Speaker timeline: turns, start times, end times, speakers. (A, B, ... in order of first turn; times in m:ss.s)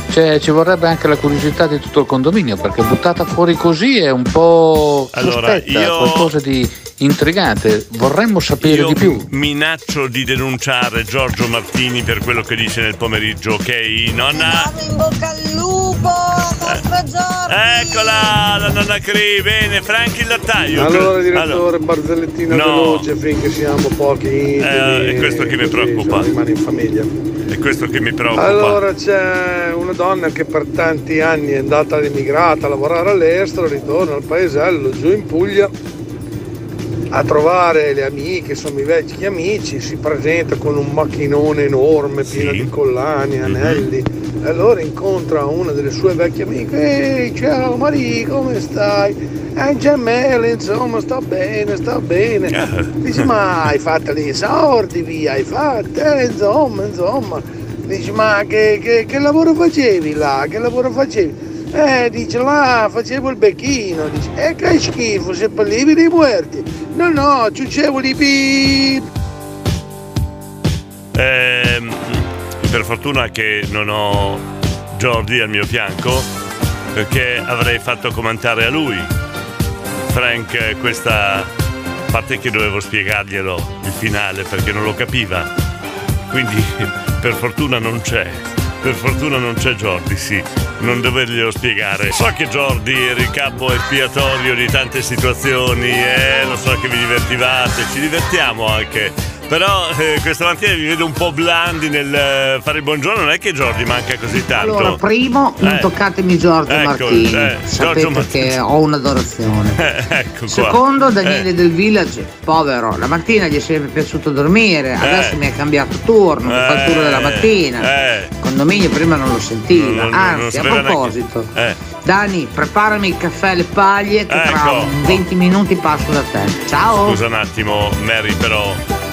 0:00.1-0:09.2 A
0:05.1-0:06.3 B
0:08.6-0:14.7 B
0:14.3-0:18.3 C
0:17.5-0:21.6 B
0:20.8-0:27.1 D
0:22.5-0:23.1 B
0:24.6-0:26.3 B
0:27.5-0:28.8 B
0:28.3-0:35.7 D
0:37.1-1:09.0 D
0:42.2-0:42.7 B
0:43.4-0:43.9 B
0:52.5-0:53.3 B
1:11.1-1:16.3 B
1:16.9-1:19.1 B
1:20.1-1:21.5 B
1:22.1-1:25.5 B
1:26.3-1:45.0 B
1:44.6-1:49.8 E
1:45.6-1:45.9 B
1:46.7-1:48.6 B
1:49.8-1:51.4 B
1:50.5-1:57.9 E
1:55.0-1:55.4 B
1:56.4-1:58.3 B
1:58.4-2:01.5 E
1:59.7-2:01.8 B
2:02.0-2:07.2 E
2:04.3-2:05.2 B
2:06.9-2:08.8 B